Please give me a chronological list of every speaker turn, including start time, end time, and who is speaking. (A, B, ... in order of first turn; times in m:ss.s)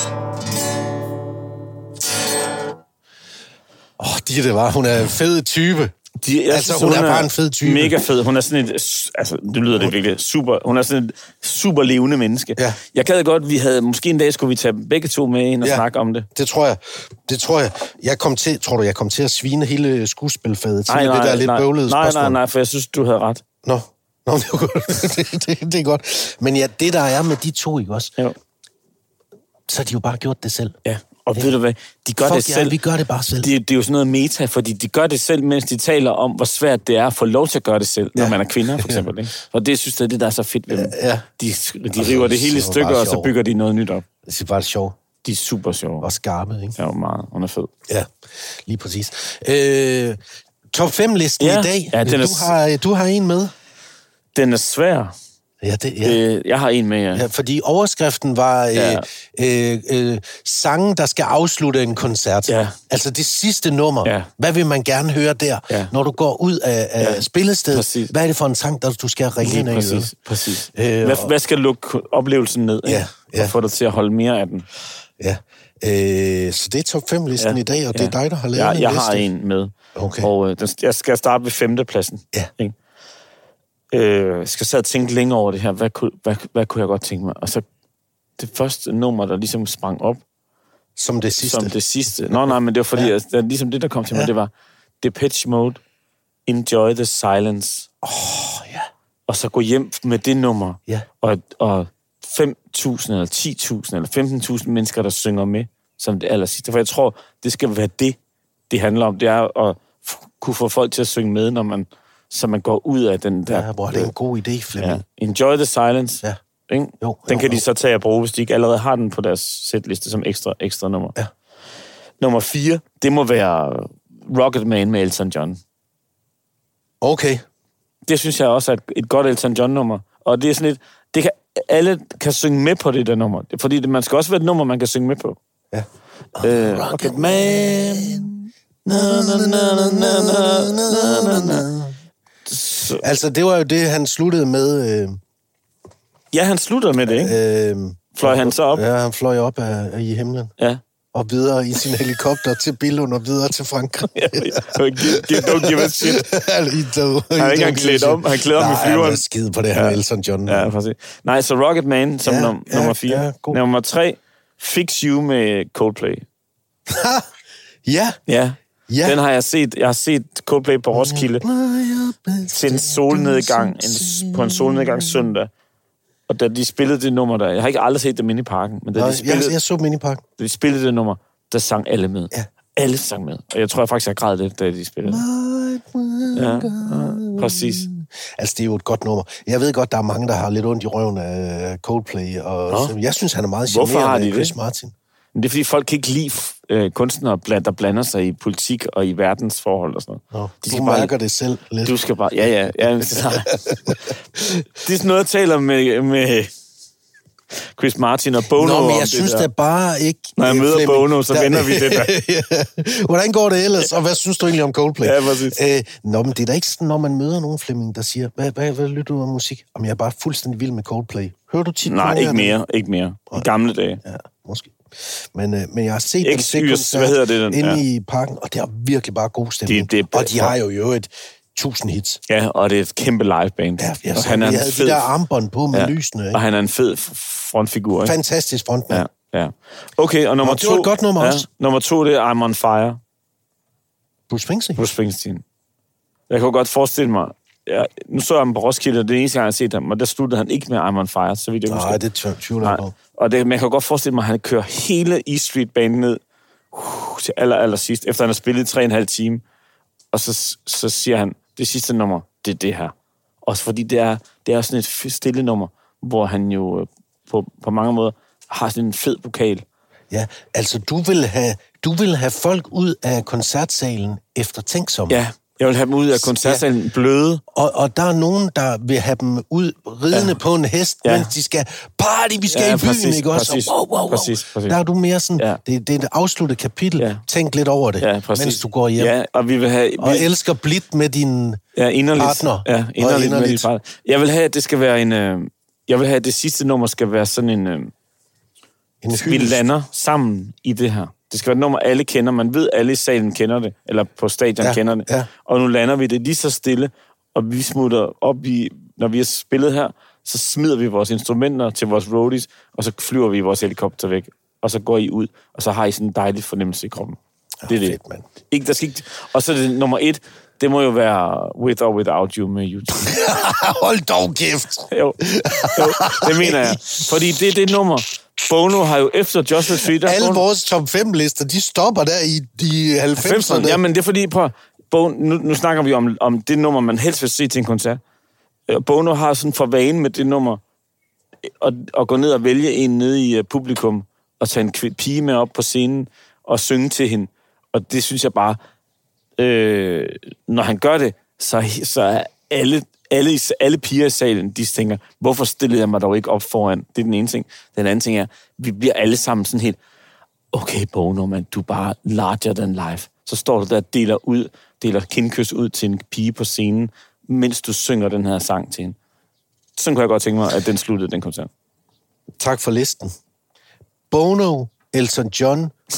0:04.0-0:05.9 A
0:06.2-0:16.3 B
0:06.5-0:08.0 A
0:15.6-0:22.4 A
0:20.9-0:23.4 B
0:23.6-0:28.2 A
0:29.7-0:30.8 A
0:30.8-0:32.7 B
0:32.2-0:33.5 A
0:33.4-0:44.0 B
0:38.1-0:39.1 A
0:40.7-0:41.3 A
0:42.0-0:43.3 A
0:44.2-0:45.0 A
0:45.2-0:46.1 B
0:46.0-0:46.8 A
0:46.8-0:47.7 B
0:47.9-0:50.2 A
0:50.7-0:53.5 A
0:51.4-0:52.5 B
0:54.3-0:55.1 B
0:55.6-0:56.2 A
0:56.0-0:57.2 B
0:57.1-1:10.1 A
0:58.7-0:59.0 B
1:02.5-1:02.8 B
1:07.0-1:08.1 B
1:09.4-1:14.6 B
1:10.7-1:11.3 A
1:12.8-1:13.5 A
1:15.2-1:19.3 A
1:17.4-1:22.7 B
1:19.9-1:20.3 A
1:23.9-1:27.6 B
1:28.4-1:30.2 B
1:31.0-1:31.8 A
1:31.4-1:35.8 B
1:32.3-1:33.1 A
1:36.4-1:37.9 B
1:38.0-1:38.9 A
1:39.3-1:48.2 B
1:48.7-1:54.1 B
1:53.5-1:55.0 A
1:54.8-2:01.2 B
1:57.0-1:57.6 A
2:02.2-2:05.6 B
2:07.0-2:07.4 A
2:08.1-2:15.4 B
2:15.7-2:18.3 A
2:16.4-2:21.7 B
2:18.9-2:22.0 A
2:22.5-2:23.0 B
2:23.0-2:25.2 A
2:26.3-2:27.4 B
2:27.1-2:30.5 A
2:28.1-2:28.8 B
2:31.1-2:40.7 A
2:34.1-2:36.2 B
2:37.4-2:46.2 B
2:42.2-2:43.6 A
2:46.9-2:47.2 A
2:47.8-2:48.2 A
2:48.3-2:51.4 B
2:48.9-2:49.2 A
2:50.9-2:55.3 A
2:52.5-2:55.5 B
2:56.3-2:59.5 B
2:59.0-3:00.2 A
3:00.4-3:05.2 B
3:05.0-3:14.9 A
3:06.3-3:07.9 B
3:13.7-3:14.5 B
3:15.3-3:21.1 B
3:20.3-3:22.0 A
3:21.8-3:23.6 B
3:23.4-3:24.6 A
3:24.8-3:26.5 B
3:27.7-3:29.5 B
3:28.5-3:42.6 A
3:30.4-3:32.1 B
3:35.0-3:35.6 B
3:41.9-3:44.0 B
3:44.0-3:52.2 A
3:46.2-3:47.8 B
3:49.7-3:50.6 B
3:52.3-3:55.1 B
3:53.8-3:56.4 A
3:55.7-3:58.1 B
3:58.0-3:59.0 A
3:58.9-4:03.0 B
4:00.4-4:01.4 A
4:04.3-4:04.8 A
4:04.8-4:05.4 B
4:06.3-4:12.0 B
4:11.7-4:12.9 A
4:12.6-4:16.2 B
4:16.7-4:19.4 B
4:20.1-4:22.9 B
4:23.4-4:29.6 B
4:30.1-4:35.2 A
4:35.1-4:37.4 B
4:36.1-4:36.6 A
4:37.5-4:49.1 A
4:40.1-4:40.4 B
4:41.0-4:41.3 B
4:42.5-4:44.8 B
4:47.0-4:47.2 B
4:48.0-4:50.3 B
4:50.0-4:51.6 A
4:51.8-4:57.9 B
4:52.2-4:53.7 A
4:59.0-4:59.6 A
4:59.1-5:18.0 B
5:04.6-5:05.3 A
5:17.6-5:18.2 A
5:18.5-5:23.1 B
5:22.9-5:27.4 A
5:24.9-5:30.4 B
5:29.7-5:33.8 A
5:33.2-5:38.0 B
5:38.7-5:40.6 B
5:41.6-5:48.6 B
5:49.4-5:59.8 B
6:00.5-6:09.0 B
6:09.8-6:11.5 B
6:12.4-6:13.1 A
6:14.1-6:15.7 A